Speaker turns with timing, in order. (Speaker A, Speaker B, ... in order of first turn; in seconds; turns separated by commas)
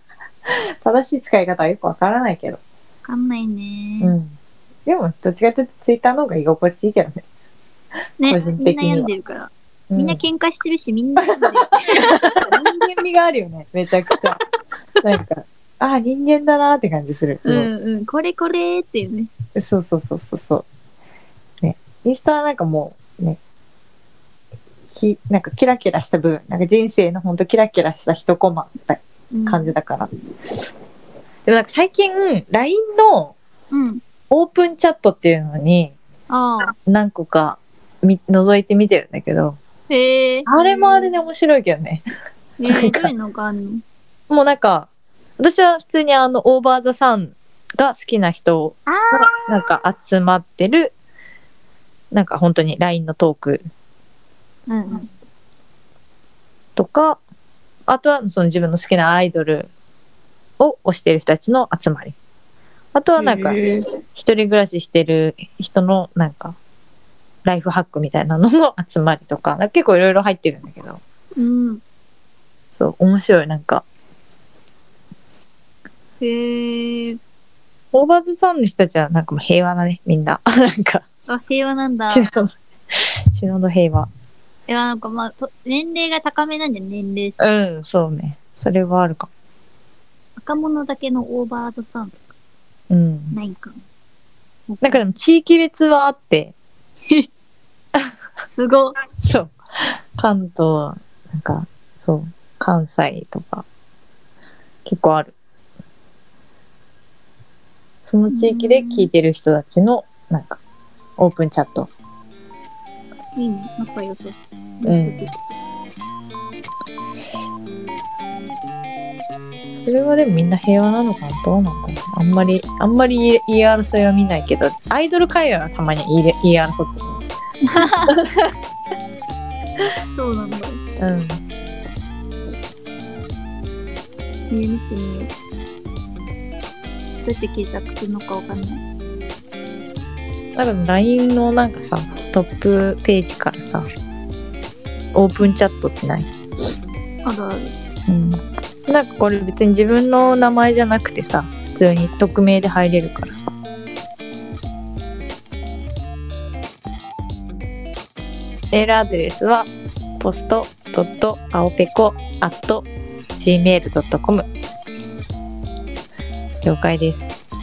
Speaker A: 0.5-2.6, Speaker B: 3.0-4.2, Speaker A: 4.0-4.3, Speaker A: 4.9-7.2, Speaker B: 8.2-12.8, Speaker A: 8.2-9.1, Speaker A: 9.9-10.2, Speaker A: 11.3-14.4, Speaker A: 15.0-17.7, Speaker B: 17.4-19.3, Speaker A: 19.6-20.6, Speaker A: 21.6-23.4, Speaker A: 24.9-30.1, Speaker B: 29.3-29.8, Speaker A: 31.5-33.4, Speaker B: 33.7-34.0, Speaker A: 34.3-36.0, Speaker B: 36.3-36.7, Speaker A: 36.9-39.6, Speaker B: 39.9-41.1, Speaker A: 40.5-42.0, Speaker B: 42.6-43.8, Speaker A: 42.7-43.1, Speaker A: 44.3-51.0, Speaker B: 48.9-49.3, Speaker A: 52.1-53.6, Speaker B: 54.7-55.1, Speaker A: 56.8-57.2, Speaker A: 57.9-59.7, Speaker A: 60.6-62.2, Speaker A: 63.0-63.6, Speaker B: 63.2-63.8, Speaker A: 64.2-66.6, Speaker A: 67.5-71.0, Speaker B: 71.4-71.8, Speaker A: 72.7-73.8, Speaker B: 76.2-77.2, Speaker A: 77.9-81.0, Speaker B: 81.3-82.3, Speaker A: 82.1-84.1, Speaker B: 84.7-87.4, Speaker A: 87.4-89.3, Speaker B: 90.4-92.3, Speaker A: 92.9-93.4, Speaker B: 93.3-93.8, Speaker B: 94.7-95.0, Speaker A: 94.8-96.5, Speaker B: 97.1-97.4, Speaker B: 98.4-99.0, Speaker A: 99.2-99.5, Speaker A: 100.2-103.7, Speaker A: 104.8-105.3, Speaker A: 108.0-110.6, Speaker B: 108.3-109.1, Speaker A: 111.2-111.9, Speaker B: 113.4-115.5, Speaker A: 114.8-115.3, Speaker A: 119.8-127.2, Speaker B: 127.6-128.2, Speaker A: 128.1-128.5, Speaker B: 130.1-130.8, Speaker A: 131.0-131.4, Speaker B: 134.5-135.3, Speaker B: 137.2-138.8, Speaker A: 140.6-143.8, Speaker A: 145.1-146.3, Speaker B: 147.2-147.7, Speaker A: 148.1-153.5, Speaker A: 158.7-164.5, Speaker A: 166.6-167.3